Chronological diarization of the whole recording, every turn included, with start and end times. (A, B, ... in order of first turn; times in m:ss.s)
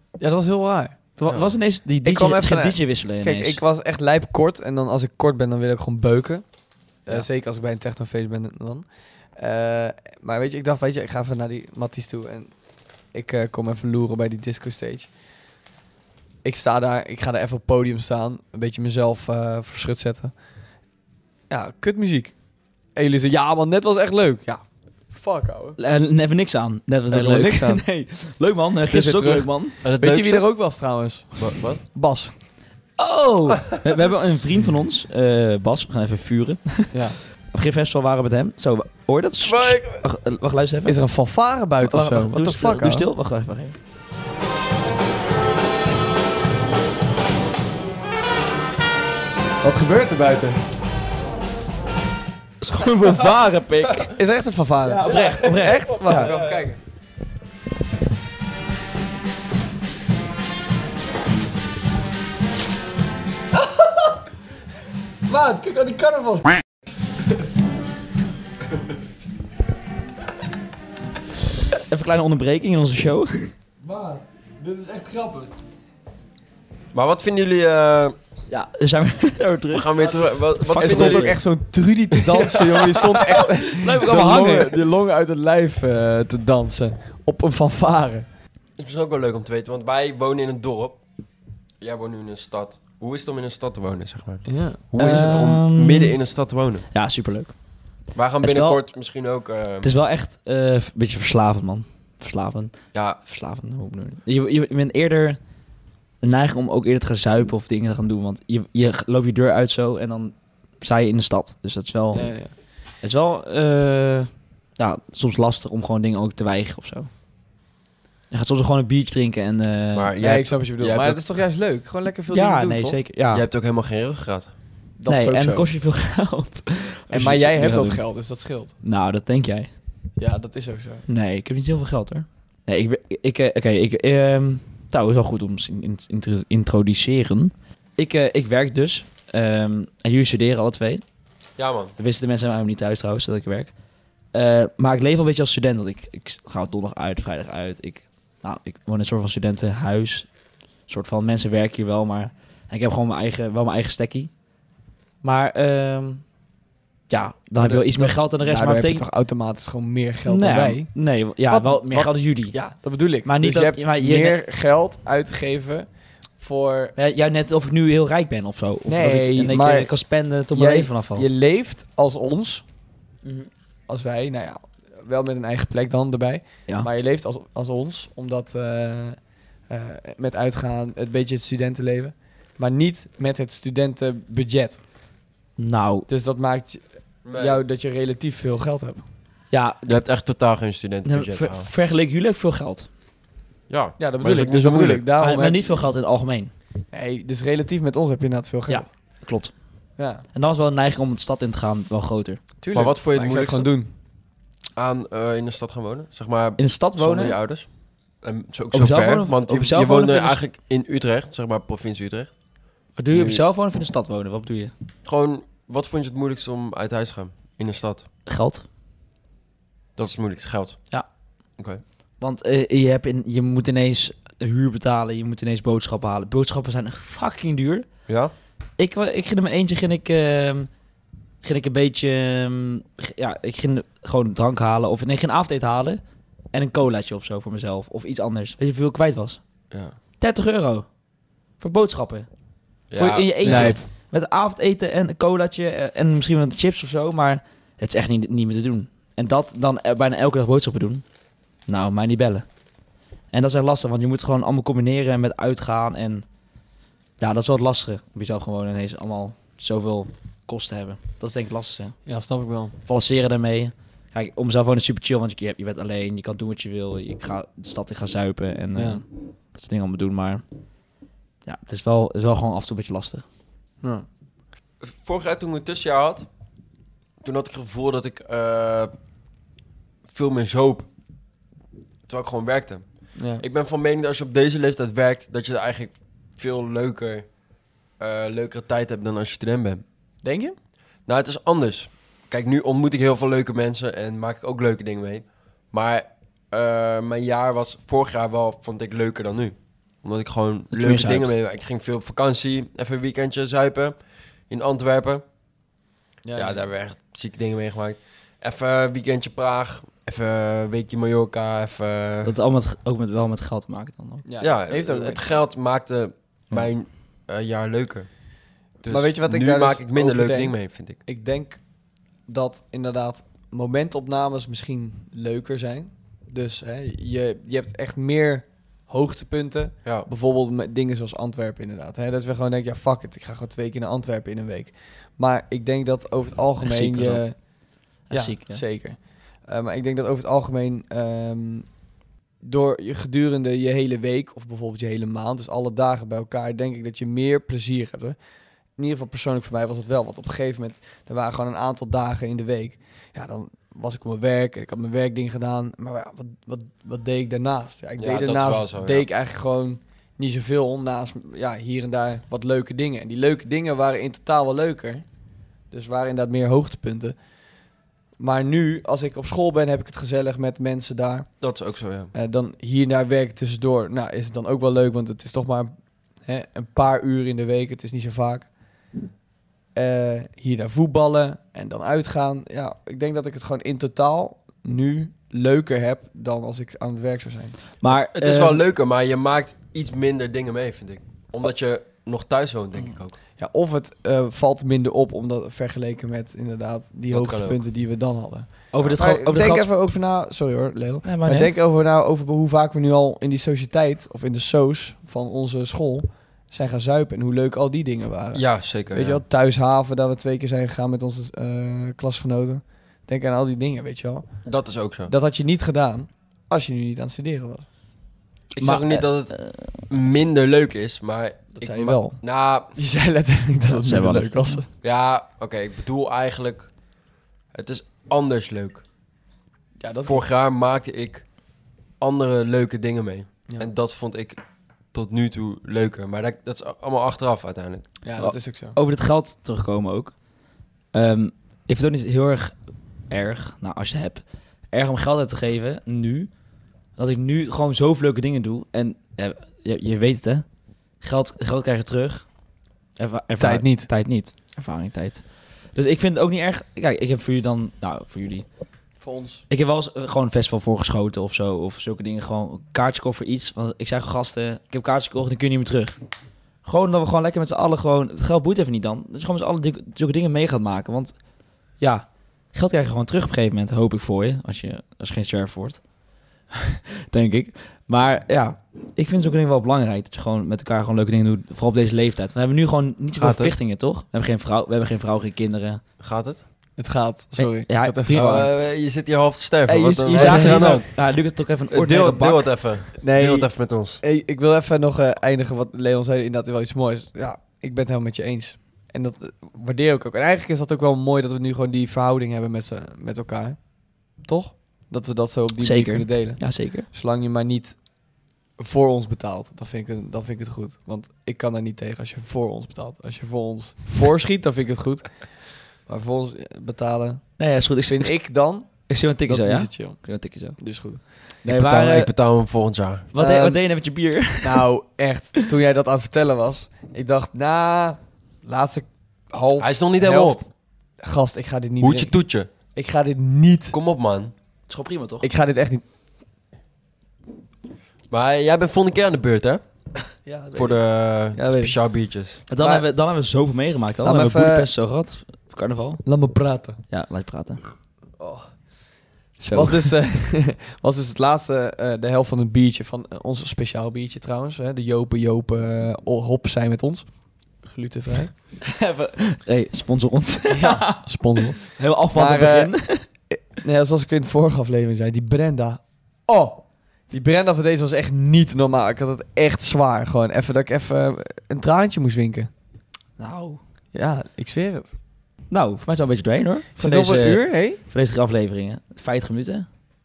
0:00.2-0:01.0 A
0:01.2-0:03.6 B
0:01.3-0:01.5 C
0:02.0-0:06.4 A
0:07.0-0:12.5 A
0:13.1-0:15.1 A
0:16.4-0:20.3 A
0:21.5-0:22.3 A
0:22.9-0:25.8 A
0:25.8-0:29.8 B
0:27.1-0:27.8 A
0:28.9-0:32.3 A
0:29.8-0:30.4 C
0:31.4-0:31.8 C
0:33.0-0:41.0 B
0:39.5-0:40.0 C
0:40.8-0:43.1 A
0:41.8-0:43.8 B
0:49.6-0:50.6 A
0:52.6-0:54.2 B
0:54.1-0:56.8 A
0:54.8-0:56.3 B
0:56.1-0:56.7 C
1:05.3-1:06.6 A
1:11.9-1:13.5 B
1:13.8-1:15.5 A
1:16.9-1:18.2 C
1:18.5-1:21.4 B
1:19.7-1:21.3 C
1:20.8-1:28.2 A
1:23.1-1:24.8 B
1:28.8-1:31.0 C
1:31.8-1:36.8 C
1:34.4-1:34.8 A
1:35.0-1:36.2 B
1:36.9-1:37.6 B
1:38.1-1:39.9 C
1:38.4-1:38.8 B
1:39.8-1:45.4 B
1:42.9-1:43.2 C
1:46.2-1:52.3 B
1:52.1-1:52.5 A
1:53.0-1:57.1 B
1:58.3-2:00.1 B
1:59.9-2:01.2 C
2:00.2-2:03.0 A
2:02.3-2:03.4 B
2:03.3-2:04.5 C
2:05.0-2:05.6 A
2:05.1-2:08.0 B
2:07.1-2:08.7 A
2:08.8-2:09.7 B
2:10.2-2:11.0 A
2:11.1-2:21.0 B
2:21.6-2:21.9 C
2:22.0-2:23.7 B
2:24.3-2:30.3 B
2:30.9-2:34.3 B
2:35.2-2:36.2 B
2:37.1-2:39.0 B
2:37.6-2:40.9 A
2:40.3-2:42.6 B
2:41.5-2:45.8 A
2:43.2-2:44.4 B
2:46.4-2:46.9 A
2:47.0-2:51.3 B
2:48.8-2:49.9 A
2:50.5-2:52.6 A
2:53.2-2:53.5 B
2:53.9-2:59.2 A
2:59.7-3:04.8 A
3:05.6-3:06.1 B
3:06.1-3:09.0 A
3:07.2-3:07.6 C
3:09.5-3:10.0 B
3:09.8-3:11.7 C
3:11.0-3:12.9 B
3:13.7-3:15.0 C
3:14.0-3:15.7 A
3:15.2-3:16.5 B
3:16.9-3:18.9 A
3:18.7-3:19.5 B
3:20.0-3:20.2 A
3:20.3-3:22.4 B
3:22.6-3:23.9 A
3:22.7-3:23.7 C
3:24.8-3:27.7 C
3:26.6-3:27.4 B
3:28.2-3:32.3 C
3:28.7-3:30.4 B
3:33.0-3:34.7 B
3:33.1-3:33.4 C
3:35.0-3:38.0 C
3:38.3-3:38.6 B
3:40.0-3:40.8 C
3:42.2-3:47.8 B
3:48.1-3:48.3 C
3:48.8-3:50.7 B
3:51.4-3:56.0 B
3:56.5-3:59.4 B
4:00.2-4:00.9 B
4:01.6-4:02.3 B
4:02.9-4:03.8 C
4:02.9-4:11.0 B
4:03.4-4:03.9 A
4:11.7-4:12.4 B
4:13.3-4:16.2 B
4:17.2-4:22.0 B
4:22.0-4:22.8 A
4:22.9-4:30.4 B
4:28.7-4:29.0 A
4:31.4-4:33.2 B
4:34.8-4:36.3 C
4:37.2-4:38.9 C
4:40.0-4:40.9 C
4:42.0-4:47.3 C
4:43.2-4:43.4 A
4:48.0-4:49.8 C
4:50.2-4:50.5 A
4:51.0-5:05.2 C
5:00.7-5:01.3 B
5:06.2-5:06.6 A
5:06.3-5:12.3 C
5:12.2-5:14.2 B
5:14.2-5:15.2 A
5:14.4-5:18.1 C
5:18.8-5:21.0 C
5:18.8-5:21.7 A
5:22.2-5:37.6 A
5:36.6-5:37.5 B
5:38.0-5:38.6 B
5:38.1-5:41.8 A
5:42.4-5:48.2 A
5:48.8-6:05.1 A
5:58.0-5:59.0 C
6:05.7-6:07.2 A
6:08.2-6:11.4 A
6:11.4-6:12.1 C
6:12.1-6:18.5 A
6:19.7-6:27.6 A
6:27.8-6:28.6 B
6:27.9-6:33.2 C
6:33.4-6:54.4 A
6:37.1-6:37.6 C
6:38.7-6:39.7 B
6:41.0-6:41.6 B
6:48.3-6:49.2 C
6:54.4-6:55.1 C
6:55.1-6:57.7 A
6:58.5-7:02.7 C
6:58.6-6:59.7 B
7:01.5-7:04.7 A
7:03.8-7:04.6 B
7:04.8-7:06.7 C
7:07.5-7:08.8 C
7:09.8-7:10.2 A
7:10.1-7:11.3 C
7:12.0-7:14.4 C
7:14.9-7:17.9 C
7:18.0-7:18.8 A
7:18.2-7:20.2 B
7:20.9-7:22.5 B
7:23.1-7:26.3 B
7:27.0-7:30.4 B
7:31.0-7:32.3 B
7:33.0-7:38.4 B
7:33.4-7:33.9 A
7:39.0-7:39.4 A
7:39.5-7:46.0 B
7:46.6-7:51.1 B
7:51.8-7:55.8 B
7:57.1-8:05.8 B
8:03.2-8:03.6 C
8:06.0-8:06.4 C
8:06.8-8:08.4 A
8:07.4-8:08.5 B
8:08.1-8:11.1 C
8:09.6-8:10.7 A
8:10.0-8:12.9 B
8:11.7-8:14.0 C
8:13.0-8:27.9 A
8:25.6-8:26.9 B
8:28.6-8:41.7 A
8:37.4-8:38.1 B
8:38.9-8:42.1 B
8:41.6-8:43.1 C
8:43.1-8:44.6 B
8:43.2-8:43.6 A
8:44.4-8:50.5 A
8:49.6-8:50.4 C
8:51.0-8:53.8 A
8:51.8-8:52.5 C
8:53.7-8:54.3 C
8:54.7-8:55.3 B
8:55.2-8:55.8 A
8:58.1-8:59.6 C
9:00.2-9:01.7 A
9:00.5-9:02.4 C
9:02.5-9:06.0 B
9:02.6-9:02.8 A
9:04.0-9:04.7 A
9:06.0-9:06.8 A
9:06.9-9:07.6 B
9:08.2-9:08.7 A
9:09.4-9:09.9 B
9:09.5-9:18.3 A
9:18.7-9:23.0 B
9:20.5-9:32.5 A
9:33.2-9:33.6 B
9:33.9-9:34.9 A
9:35.5-9:39.7 B
9:36.8-9:37.8 A